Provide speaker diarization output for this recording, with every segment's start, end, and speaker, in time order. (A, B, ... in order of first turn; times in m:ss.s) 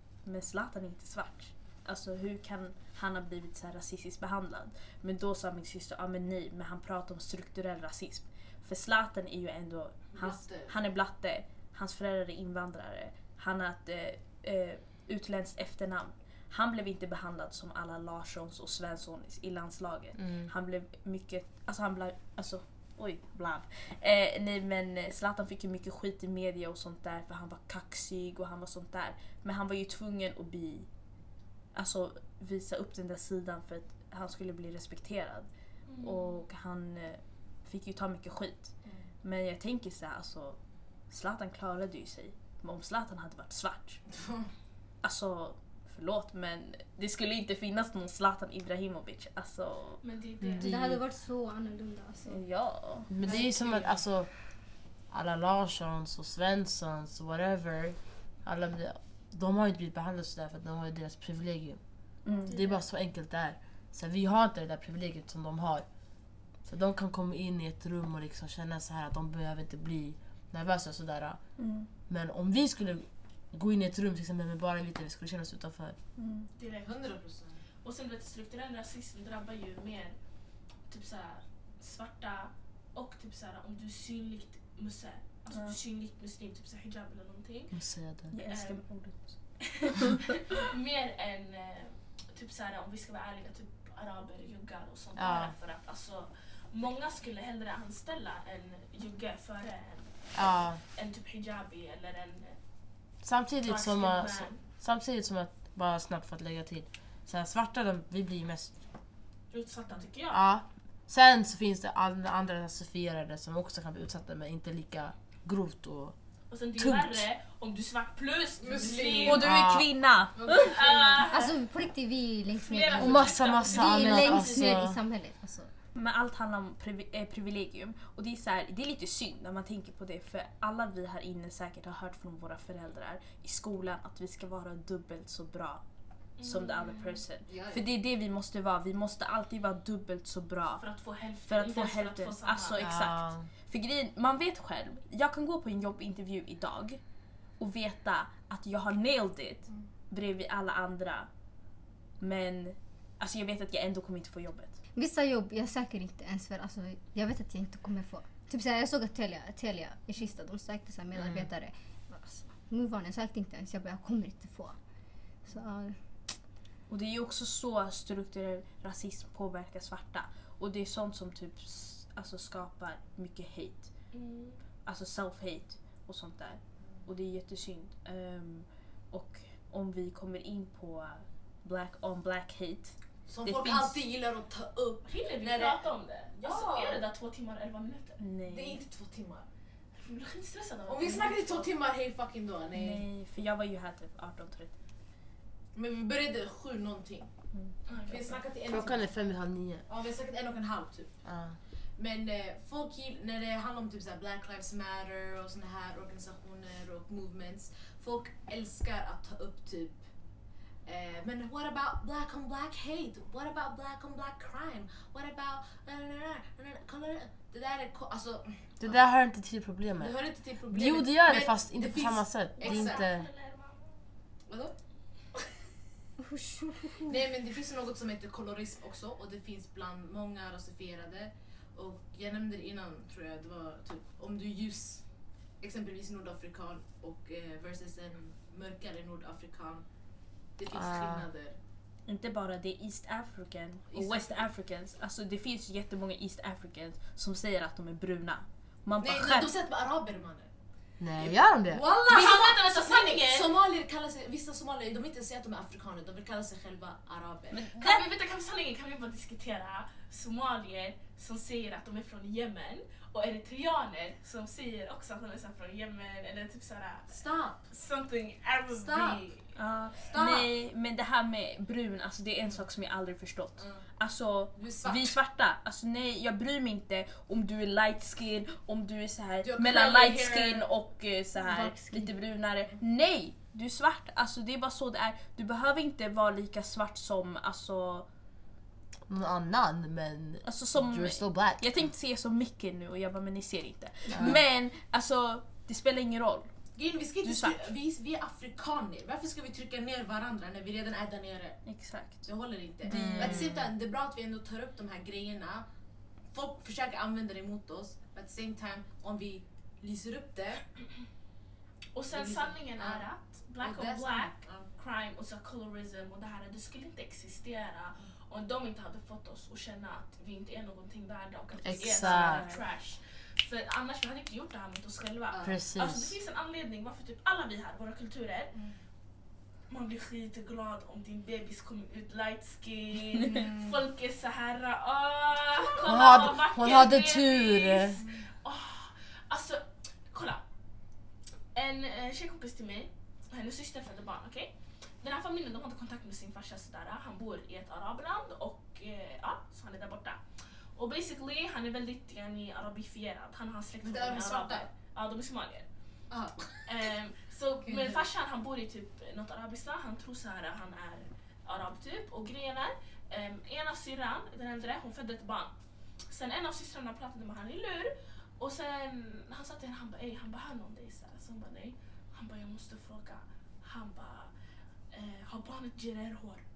0:00.2-0:30.9 A
0:10.1-0:10.7 B
0:20.2-0:20.5 C
0:31.7-0:35.5 A
0:35.9-0:36.4 D
0:36.0-0:40.6 A
0:41.1-0:44.0 A
0:45.0-0:50.0 A
0:50.0-0:50.7 D
0:50.4-0:51.0 C
0:50.6-0:52.4 E
0:52.3-0:53.1 A
0:53.1-0:54.4 C
0:53.2-0:54.0 B
0:55.1-1:01.8 C
1:02.2-1:02.6 A
1:02.5-1:05.9 C
1:06.6-1:11.4 C
1:11.6-1:11.9 A
1:12.1-1:16.0 C
1:16.2-1:16.5 A
1:16.6-1:17.1 D
1:16.8-1:17.6 B
1:17.8-1:20.2 D
1:20.9-1:27.8 D
1:25.5-1:25.8 A
1:27.7-1:28.3 C
1:28.3-1:30.4 A
1:28.5-1:28.8 D
1:29.6-1:42.6 D
1:35.2-1:35.5 C
1:40.4-1:40.8 C
1:43.2-1:48.8 C
1:43.6-1:44.6 D
1:49.5-1:50.4 D
1:50.3-1:56.2 C
1:56.5-1:59.5 D
1:56.8-1:57.2 C
1:58.6-1:59.5 B
1:59.2-2:00.7 A
1:59.4-1:59.9 C
2:00.4-2:01.2 B
2:00.6-2:01.6 D
2:01.3-2:05.7 E
2:02.5-2:04.8 D
2:03.0-2:05.0 C
2:06.0-2:15.8 A
2:16.4-2:17.2 D
2:16.4-2:20.8 A
2:17.5-2:17.8 B
2:20.8-2:22.9 D
2:21.5-2:27.0 A
2:22.8-2:23.5 C
2:27.6-2:31.3 A
2:32.2-2:34.8 A
2:35.0-2:44.8 E
2:41.2-2:41.5 C
2:45.4-2:46.0 E
2:46.9-2:53.9 A
2:54.1-2:54.6 D
2:54.8-3:04.0 A
3:03.3-3:07.0 B
3:05.1-3:08.2 D
3:08.2-3:08.8 A
3:08.5-3:09.5 B
3:10.0-3:11.7 D
3:10.9-3:13.0 B
3:12.7-3:14.7 A
3:15.7-3:17.3 B
3:17.9-3:18.4 D
3:18.1-3:19.1 B
3:18.7-3:19.8 C
3:19.9-3:21.2 B
3:21.2-3:21.6 C
3:22.0-3:30.0 B
3:30.8-3:39.0 B
3:38.8-3:43.3 C
3:40.0-3:43.1 B
3:42.6-3:44.0 D
3:44.5-3:44.8 B
3:46.2-3:47.2 E
3:47.0-3:59.9 B
4:00.6-4:01.6 B
4:00.7-4:01.3 C
4:02.1-4:09.5 A
4:03.9-4:04.4 B
4:09.0-4:10.5 B
4:11.0-4:11.8 C
4:11.2-4:17.7 B
4:12.0-4:13.5 D
4:17.5-4:18.1 A
4:17.8-4:27.2 D
4:27.1-4:27.6 B
4:27.7-4:29.5 D
4:28.7-4:29.3 B
4:29.6-4:48.1 A
4:30.1-4:30.5 B
4:33.6-4:33.8 B
4:34.6-4:35.2 B
4:39.4-4:40.7 B
4:41.4-4:42.2 B
4:49.1-4:51.9 C
4:50.4-4:56.5 A
4:54.2-4:54.4 C
4:56.8-5:05.7 B
4:57.2-4:57.7 A
5:01.6-5:02.3 A
5:02.8-5:03.5 A
5:02.9-5:03.7 C
5:06.3-5:10.7 B
5:11.9-5:28.5 D
5:12.1-5:13.1 B
5:13.6-5:14.7 B
5:21.6-5:22.4 C
5:22.0-5:22.6 A
5:25.3-5:25.6 B
5:25.4-5:26.2 C
5:29.7-5:40.4 D
5:33.2-5:33.8 B
5:35.9-5:38.0 C
5:38.0-5:38.2 B
5:41.5-5:55.7 D
5:53.8-5:54.7 B
5:56.1-5:56.6 B
5:56.7-6:05.5 D
5:57.6-5:58.0 B
6:06.1-6:14.3 D
6:14.9-6:16.4 D